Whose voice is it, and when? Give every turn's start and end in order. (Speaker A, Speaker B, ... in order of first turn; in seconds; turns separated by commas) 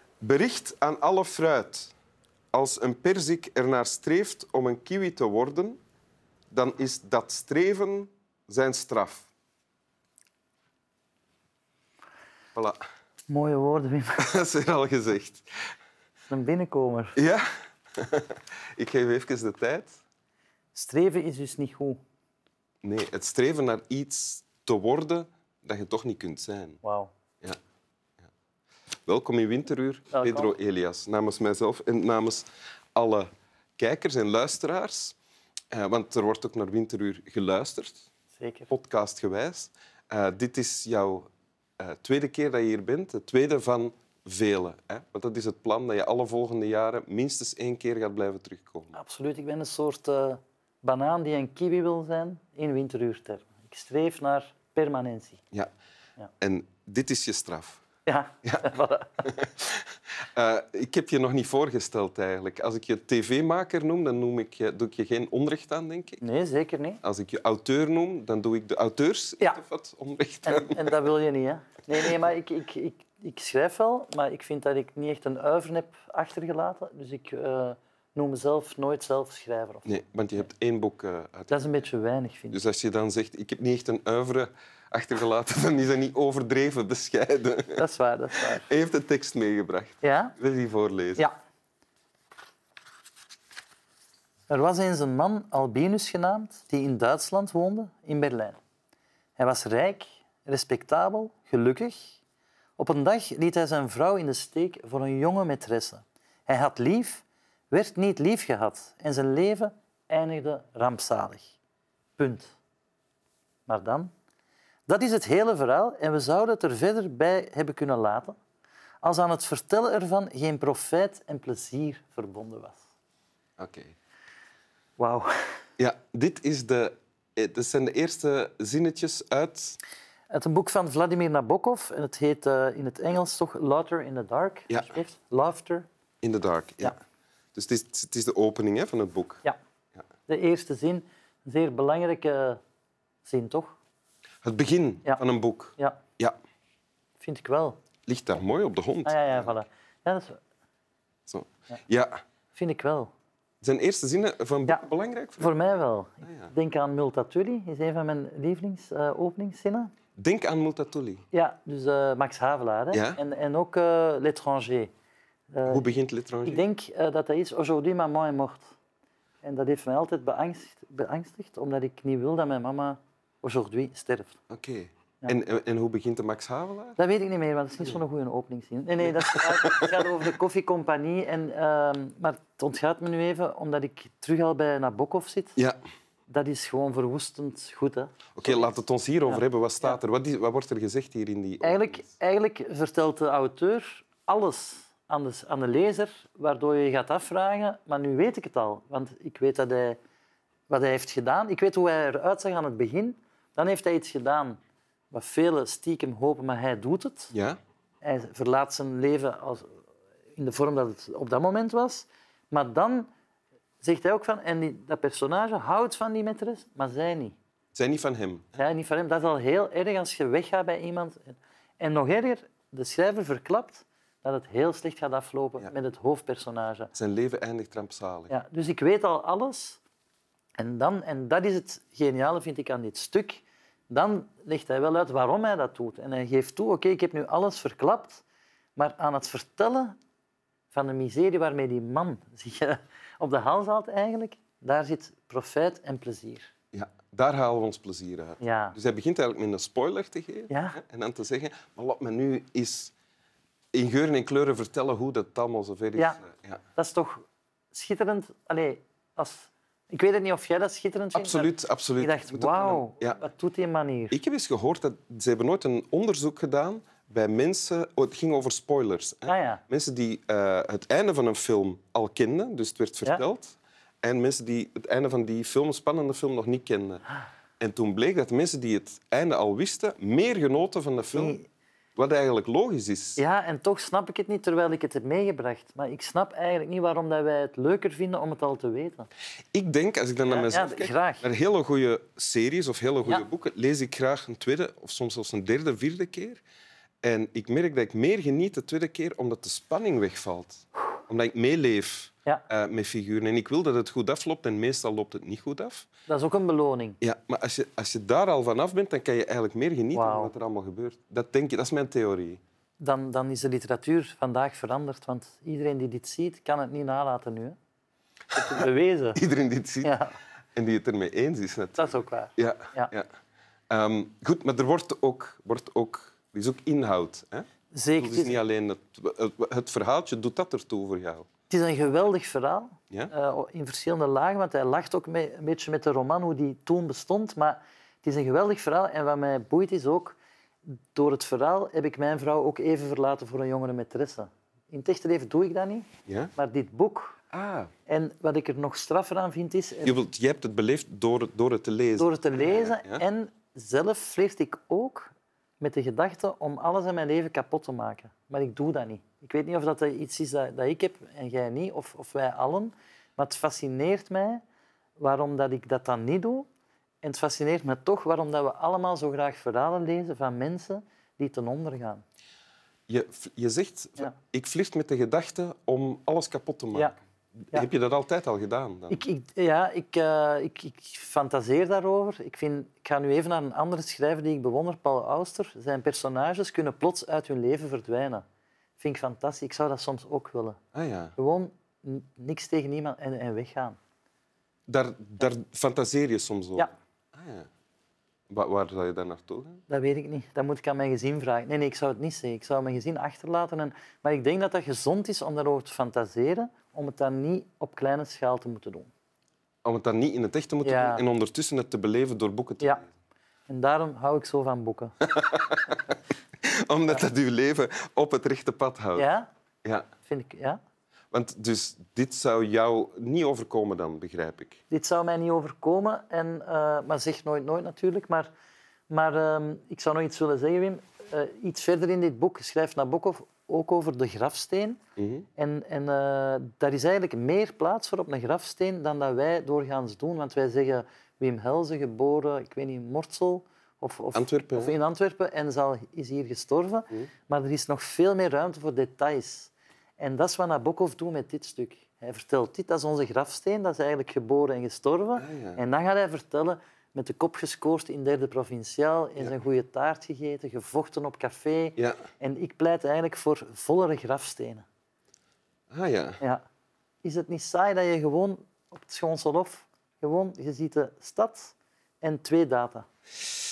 Speaker A: 0.2-1.9, Speaker A: 2.5-5.8, Speaker A: 6.5-9.3, Speaker A: 12.5-12.8, Speaker B: 13.3-14.2, Speaker A: 14.2-15.4, Speaker B: 16.3-17.2, Speaker A: 17.1-20.0, Speaker B: 20.7-22.0, Speaker A: 22.8-26.8, Speaker B: 26.8-27.1, Speaker A: 29.1-35.2, Speaker B: 30.1-30.5, Speaker A: 35.7-38.1, Speaker B: 38.4-38.7, Speaker A: 38.7-41.3, Speaker A: 41.8-48.9, Speaker B: 48.9-55.4, Speaker A: 56.4-57.8, Speaker B: 58.0-59.3, Speaker A: 59.2-66.2, Speaker B: 66.2-67.0, Speaker A: 67.0-71.0, Speaker B: 70.4-79.8, Speaker A: 79.8-81.7, Speaker B: 81.5-82.6, Speaker A: 82.5-87.8, Speaker B: 87.8-88.7, Speaker A: 88.5-91.2, Speaker B: 90.0-90.3, Speaker B: 94.5-98.6, Speaker B: 99.4-102.2, Speaker B: 102.8-111.5, Speaker B: 112.2-112.5, Speaker B: 113.7-114.1, Speaker B: 114.9-118.3, Speaker B: 119.0-122.8, Speaker A: 123.6-123.9, Speaker B: 125.0-125.5, Speaker A: 125.8-129.8, Speaker B: 130.3-135.9, Speaker A: 134.7-135.0, Speaker A: 136.2-136.9, Speaker A: 137.5-139.4, Speaker B: 140.3-142.6, Speaker B: 143.2-143.8, Speaker A: 144.4-146.3, Speaker B: 147.2-147.8, Speaker A: 148.1-149.5, Speaker B: 149.0-150.4, Speaker A: 151.3-152.2, Speaker B: 152.5-153.1, Speaker A: 153.6-155.5, Speaker B: 155.4-159.9, Speaker A: 156.2-156.5, Speaker A: 160.2-161.2, Speaker B: 161.3-164.9, Speaker A: 162.9-163.2, Speaker B: 165.5-165.8, Speaker A: 165.7-166.6, Speaker B: 166.4-168.7, Speaker B: 169.4-174.4, Speaker A: 174.5-177.0, Speaker B: 177.0-185.6, Speaker A: 179.1-179.9, Speaker B: 186.3-188.7, Speaker A: 188.3-192.1, Speaker B: 189.3-190.0, Speaker B: 191.6-200.0, Speaker B: 200.7-204.6, Speaker B: 205.1-207.3, Speaker A: 207.3-207.6, Speaker B: 208.0-209.8, Speaker B: 210.3-213.1, Speaker B: 213.8-217.4, Speaker A: 217.7-218.6, Speaker B: 218.6-226.9, Speaker A: 226.9-228.3, Speaker B: 228.3-229.8, Speaker B: 230.6-238.2, Speaker B: 238.8-239.9, Speaker B: 240.7-246.5, Speaker A: 246.7-252.9, Speaker B: 248.4-248.8, Speaker B: 250.5-250.8, Speaker A: 253.7-256.6, Speaker B: 255.9-256.2, Speaker B: 256.7-264.2, Speaker A: 261.1-263.2, Speaker A: 264.1-277.0, Speaker B: 269.3-269.6, Speaker A: 277.6-281.4, Speaker B: 281.1-281.5, Speaker A: 281.9-283.2, Speaker B: 283.2-289.1, Speaker A: 289.5-296.4, Speaker B: 290.2-291.2, Speaker A: 297.0-305.9, Speaker B: 306.1-307.0, Speaker A: 307.0-312.4, Speaker B: 309.9-310.3, Speaker B: 312.8-317.6, Speaker A: 318.3-320.0, Speaker B: 318.3-319.2, Speaker B: 319.8-320.1, Speaker A: 320.5-323.1, Speaker B: 321.8-322.9, Speaker A: 323.7-327.4, Speaker B: 327.7-328.4, Speaker A: 328.0-331.2, Speaker B: 331.5-347.2, Speaker A: 347.3-347.7, Speaker B: 347.9-350.0, Speaker A: 349.8-353.0, Speaker B: 352.0-364.4, Speaker B: 365.0-366.5, Speaker B: 367.0-372.0, Speaker A: 372.9-379.0, Speaker B: 378.9-388.2, Speaker B: 388.8-390.6, Speaker A: 390.7-391.1, Speaker B: 391.1-393.8, Speaker A: 394.7-397.5, Speaker A: 398.3-399.6, Speaker B: 399.7-408.9, Speaker A: 409.6-412.9, Speaker B: 410.6-411.0, Speaker B: 413.5-414.9, Speaker A: 415.0-415.9, Speaker A: 416.4-419.1, Speaker B: 418.9-419.3, Speaker B: 420.0-420.6, Speaker A: 421.1-424.6, Speaker B: 424.7-428.3, Speaker B: 428.9-434.8, Speaker A: 435.0-435.3, Speaker B: 435.4-464.6, Speaker A: 444.1-444.8, Speaker A: 455.2-455.6, Speaker A: 465.7-466.2, Speaker B: 467.0-472.9